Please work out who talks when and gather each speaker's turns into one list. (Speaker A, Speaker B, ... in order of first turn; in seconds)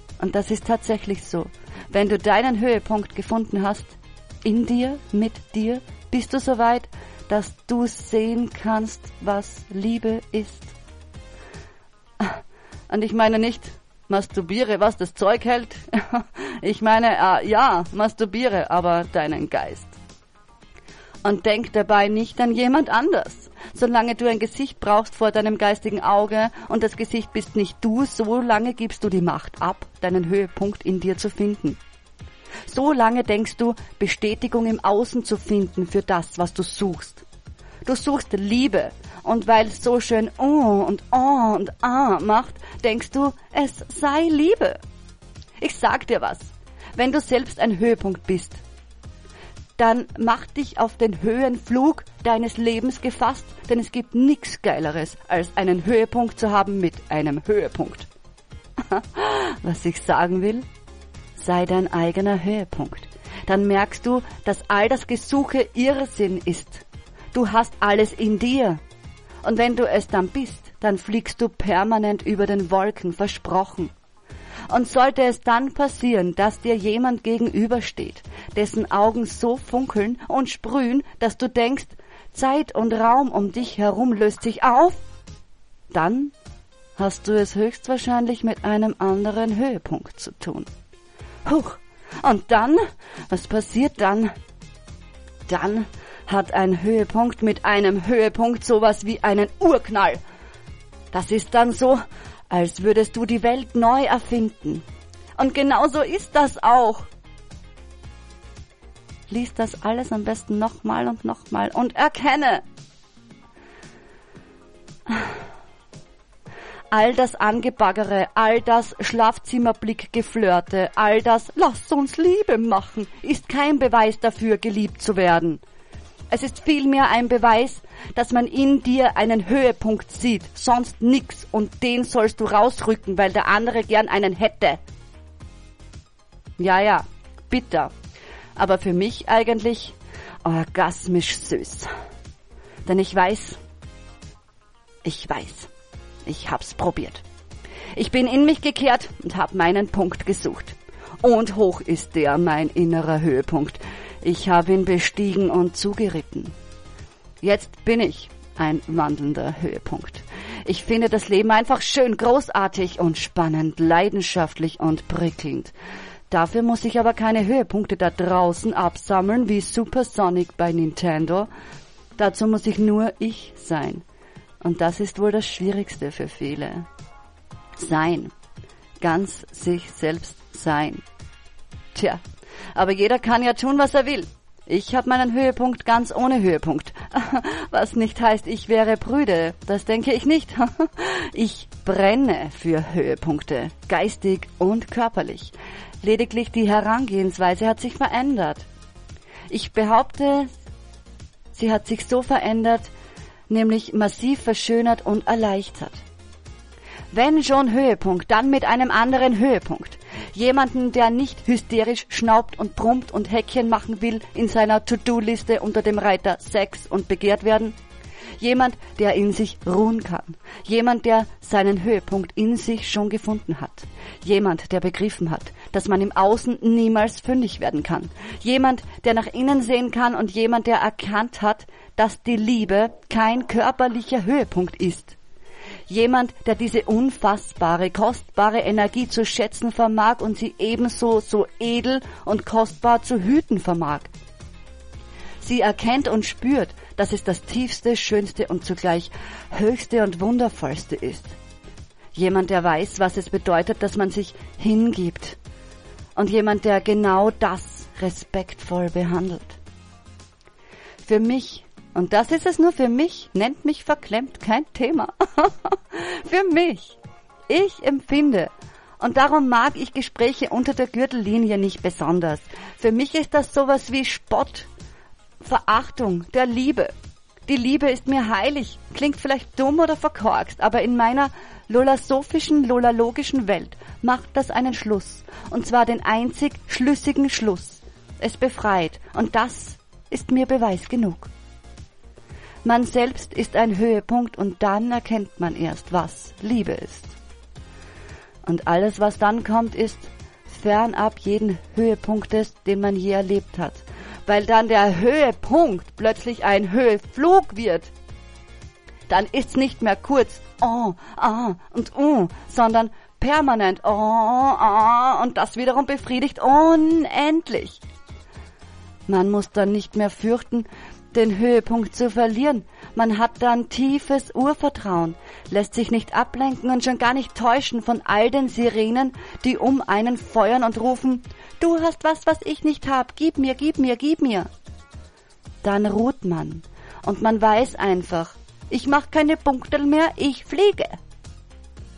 Speaker A: 0.2-10.7, 12.2-19.9, 21.2-31.8, 32.6-37.2, 37.8-44.8, 45.6-48.6, 49.8-58.1, 58.8-60.6, 61.4-68.8, 69.4-73.9, 74.7-85.0, 85.9-86.3, 87.0-90.7, 91.4-94.3, 95.5-100.2, 101.1-104.8, 105.3-107.1, 109.3-112.6, 116.9-125.6, 126.3-134.8, 136.6-137.9, 138.6-141.9, 142.8-143.6, 145.0-145.7, 146.2-147.2, 147.9-156.5, 157.4-165.7, 166.3-171.5, 172.2-174.0, 174.6-176.9, 177.8-178.3, 179.0-181.0, 181.9-182.2, 182.7-198.7, 199.5-200.5, 201.5-202.9, 203.5-206.0, 207.1-217.8, 218.4-235.2, 235.9-244.1, 245.4-251.4, 252.1-255.4, 256.1-259.6, 261.0-274.7, 275.4-276.9, 277.5-291.3, 292.6-297.2, 298.4-307.9, 309.1-317.8, 319.1-334.5, 335.6-341.0